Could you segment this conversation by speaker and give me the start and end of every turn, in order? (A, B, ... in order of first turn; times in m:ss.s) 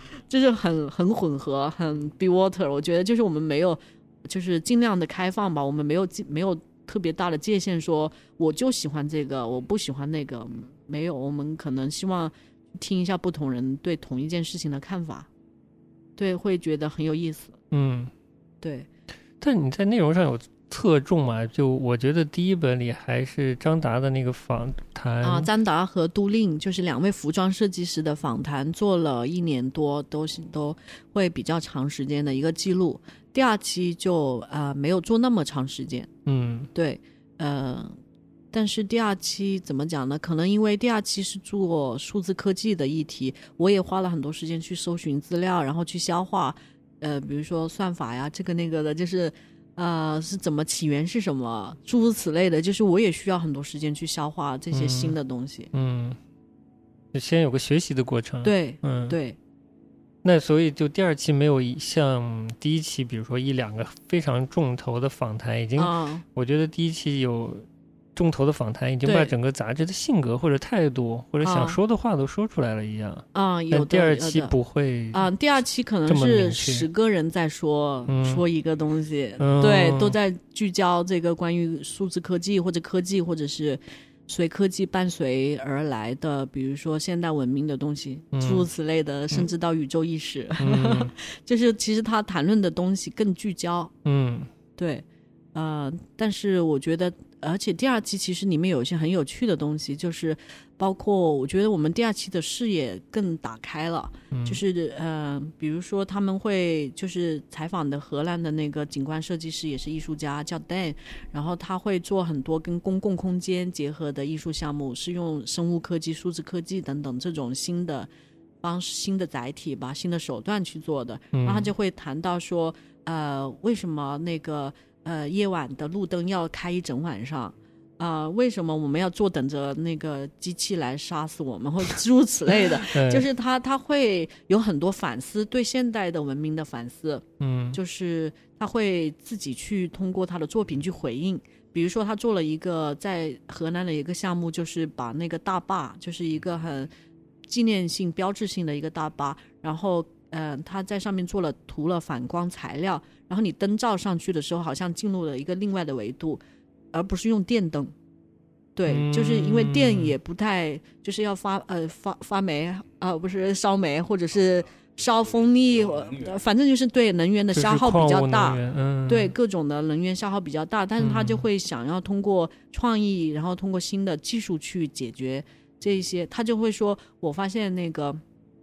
0:00.3-0:15.3 A
0:16.2-0:17.6 A
0:17.7-0:18.1 B
0:18.6-0:18.9 A
0:19.4-0:25.5 B
0:25.2-0:36.1 A
0:36.2-0:36.7 B
0:36.7-0:38.0 A
0:38.5-0:55.7 A
0:54.7-0:55.2 B
0:55.7-0:56.2 B
0:57.1-0:59.2 B
0:58.4-0:59.4 A
1:00.2-1:15.3 B
1:05.8-1:06.2 A
1:09.0-1:09.3 A
1:11.4-1:11.8 A
1:13.3-1:14.5 A
1:15.1-1:33.9 A
1:16.0-1:16.9 B
1:18.1-1:18.4 B
1:19.4-1:20.2 B
1:28.3-1:28.7 B
1:30.6-1:31.1 B
1:34.0-1:34.5 B
1:34.8-1:58.1 A
1:44.3-1:44.6 B
1:58.6-2:26.9 A
2:01.3-2:01.7 B
2:12.8-2:13.3 B
2:17.4-2:17.8 B
2:27.4-2:36.4 A
2:36.9-2:37.9 A
2:38.8-2:58.2 A
2:38.9-2:40.2 B
2:47.5-2:49.3 B
2:51.0-2:51.4 B